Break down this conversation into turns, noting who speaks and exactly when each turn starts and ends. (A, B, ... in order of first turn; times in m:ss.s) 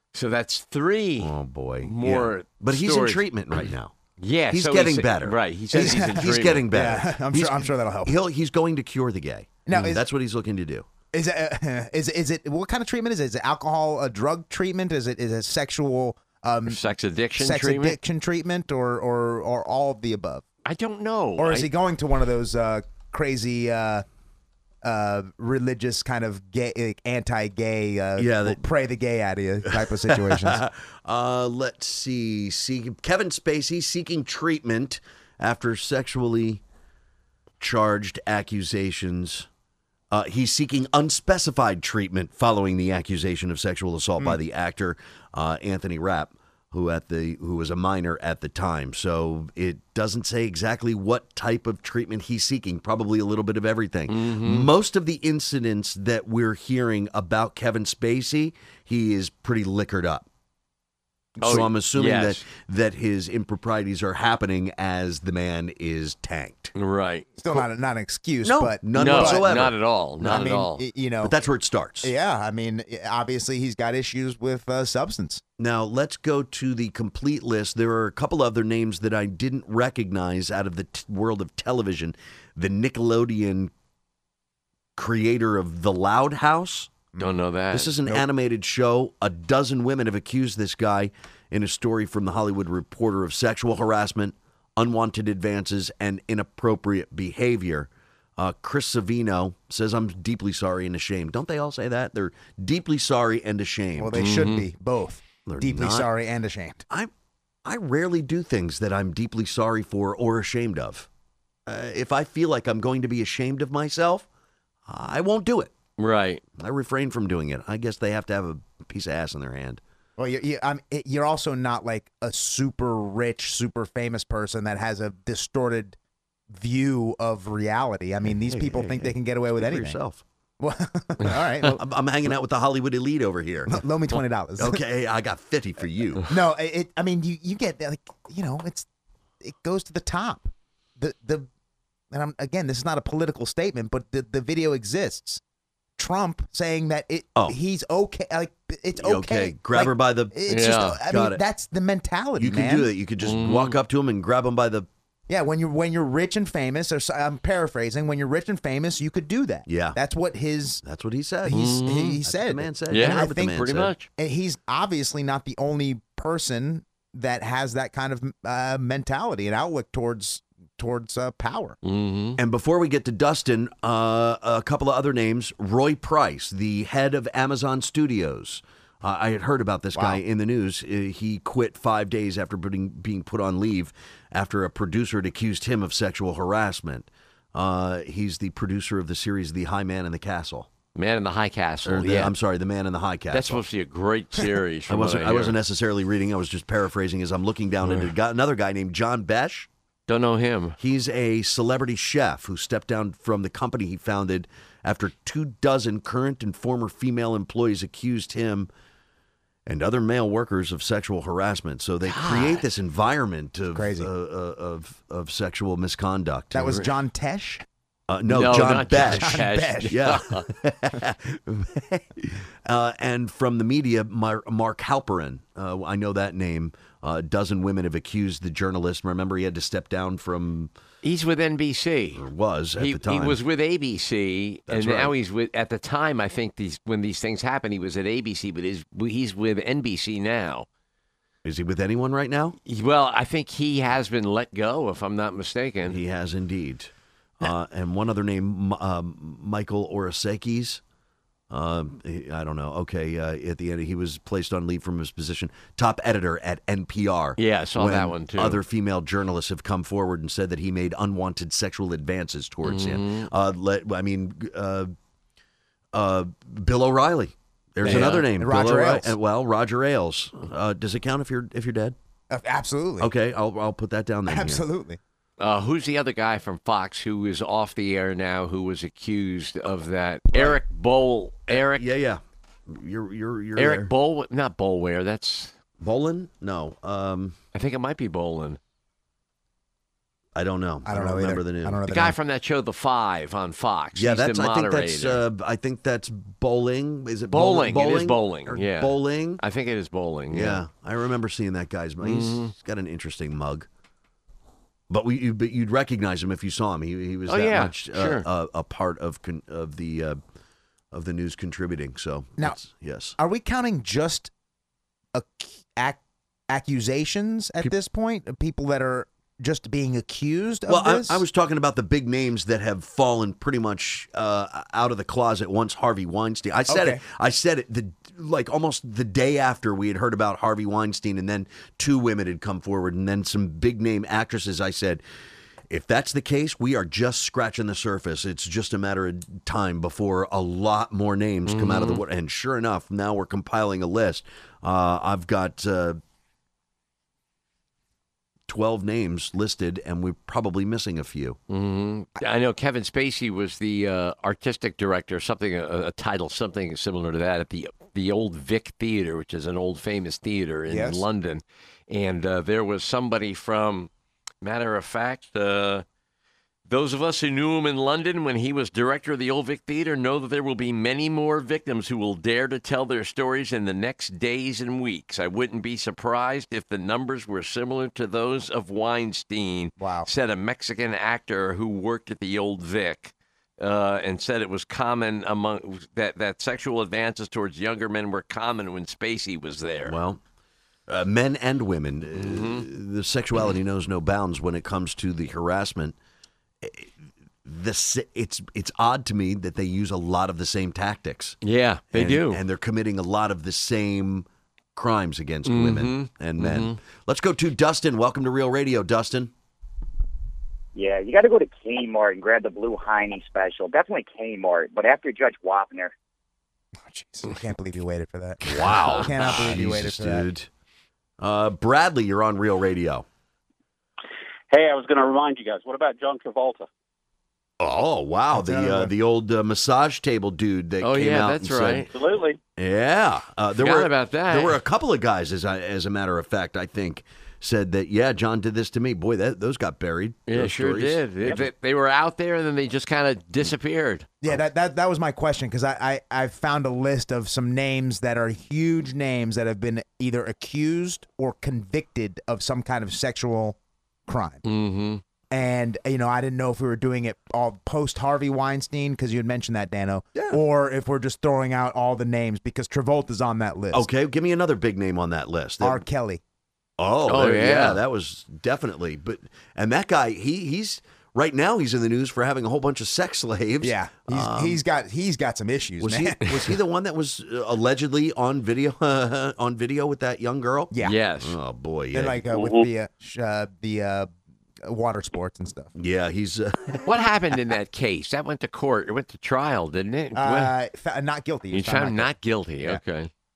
0:00.1-0:03.2 A
0:01.2-0:03.9 B
0:04.2-0:06.7 A
0:04.5-0:10.8 B
0:05.7-0:08.1 C
0:09.7-0:10.0 C
0:11.1-0:16.8 C
0:16.6-0:18.0 A
0:17.4-0:20.4 C
0:20.6-0:21.7 A
0:21.4-0:24.0 C
0:24.8-0:30.6 C
0:28.2-0:28.6 B
0:29.7-0:36.6 B
0:37.6-0:39.5 B
0:40.1-1:00.2 B
0:54.1-0:54.7 A
1:01.4-1:02.4 A
1:01.4-1:06.7 B
1:06.7-1:07.3 A
1:07.4-1:09.5 C
1:08.4-1:10.5 B
1:08.9-1:10.8 A
1:10.2-1:11.3 C
1:11.2-1:12.1 B
1:12.0-1:15.4 C
1:15.6-1:23.7 B
1:25.0-1:27.0 B
1:27.2-1:27.9 A
1:27.7-1:44.3 B
1:44.0-1:46.8 C
1:44.1-1:44.6 A
1:45.4-1:46.1 B
1:47.6-1:51.1 B
1:51.6-1:54.2 B
1:54.9-1:55.7 B
1:56.0-1:56.4 A
1:56.6-1:59.8 B
2:00.2-2:06.0 C
2:06.5-2:10.0 C
2:08.3-2:10.2 B
2:10.6-2:11.8 C
2:11.2-2:11.8 A
2:11.8-2:13.8 B
2:13.7-2:14.8 C
2:14.6-2:16.2 B
2:16.3-2:18.8 C
2:19.4-2:21.5 C
2:22.1-2:25.4 C
2:26.0-2:32.9 C
2:29.0-2:30.4 B
2:30.5-2:31.0 A
2:31.1-2:31.4 B
2:32.4-2:34.9 B
2:33.2-2:33.8 A
2:35.3-2:40.8 C
2:39.7-2:40.0 B
2:40.8-2:43.9 B
2:41.4-2:43.6 C
2:41.5-2:42.2 A
2:42.9-2:44.1 A
2:44.2-2:51.8 C
2:51.8-2:52.4 A
2:52.4-3:10.7 B
2:59.9-3:00.2 C
3:10.9-3:12.3 A
3:11.8-3:13.6 B
3:13.3-3:15.6 A
3:14.9-3:19.7 B
3:17.8-3:18.1 A
3:20.1-3:20.8 A
3:20.8-3:28.7 B
3:29.6-3:36.8 B
3:32.0-3:32.6 A
3:33.7-3:34.1 C
3:36.5-3:37.6 C
3:38.1-3:50.7 B
3:38.3-3:40.5 A
3:38.9-3:40.0 C
3:51.0-3:52.2 A
3:52.1-3:53.4 B
3:52.8-4:00.7 A
3:54.7-3:55.1 B
4:01.4-4:02.6 B
4:02.6-4:06.0 A
4:05.9-4:10.8 B
4:11.5-4:24.9 B
4:17.4-4:18.6 A
4:22.6-4:23.3 A
4:25.9-4:32.0 B
4:27.8-4:29.1 C
4:27.8-4:28.3 A
4:32.3-4:33.1 C
4:33.0-4:34.6 B
4:34.3-4:35.0 C
4:35.4-4:41.9 A
4:40.3-4:40.6 B
4:41.5-4:43.9 B
4:43.6-4:45.5 A
4:45.8-4:47.4 B
4:47.5-4:48.6 A
4:50.3-4:51.8 B
4:50.8-4:52.2 C
4:51.9-4:55.2 A
4:53.9-4:59.4 B
4:57.3-5:00.6 A
5:00.3-5:03.7 B
5:02.0-5:02.5 A
5:04.9-5:10.2 B
5:07.3-5:08.2 A
5:10.9-5:13.2 B
5:13.2-5:14.3 C
5:15.1-5:21.2 C
5:20.7-5:35.0 B
5:26.7-5:27.0 C
5:35.7-5:46.0 B
5:41.4-5:42.0 A
5:48.5-5:51.4 B
5:51.5-6:03.9 A
6:00.7-6:01.0 C
6:04.4-6:05.8 A
6:06.7-6:30.0 A
6:19.8-6:20.1 C
6:29.8-6:30.2 B
6:30.9-6:36.0 B
6:32.1-6:32.7 A
6:36.6-6:36.9 B
6:37.4-6:41.4 B
6:41.4-6:42.4 A
6:41.9-6:49.3 B
6:45.4-6:46.8 A
6:50.7-6:55.9 D
6:56.8-6:58.4 C
6:58.4-7:00.5 B
6:58.6-6:59.6 A
6:59.0-7:00.2 C
7:01.2-7:03.0 B
7:04.5-7:06.7 E
7:07.6-7:11.9 B
7:08.3-7:08.9 C
7:10.8-7:11.9 A
7:11.9-7:12.4 E
7:12.6-7:21.4 B
7:13.6-7:14.6 A
7:20.3-7:24.1 A
7:24.2-7:34.4 C
7:34.4-7:35.0 A
7:35.3-7:43.8 C
7:43.7-7:45.8 B
7:45.6-7:46.2 C
7:46.8-7:54.6 B
7:47.0-7:47.8 A
7:53.6-7:56.3 C
7:55.8-8:02.5 B
8:00.7-8:01.0 C
8:00.8-8:01.4 A
8:01.9-8:04.1 C
8:04.6-8:05.7 C
8:05.8-8:06.8 B
8:06.8-8:10.5 A
8:10.1-8:12.1 C
8:11.5-8:13.1 A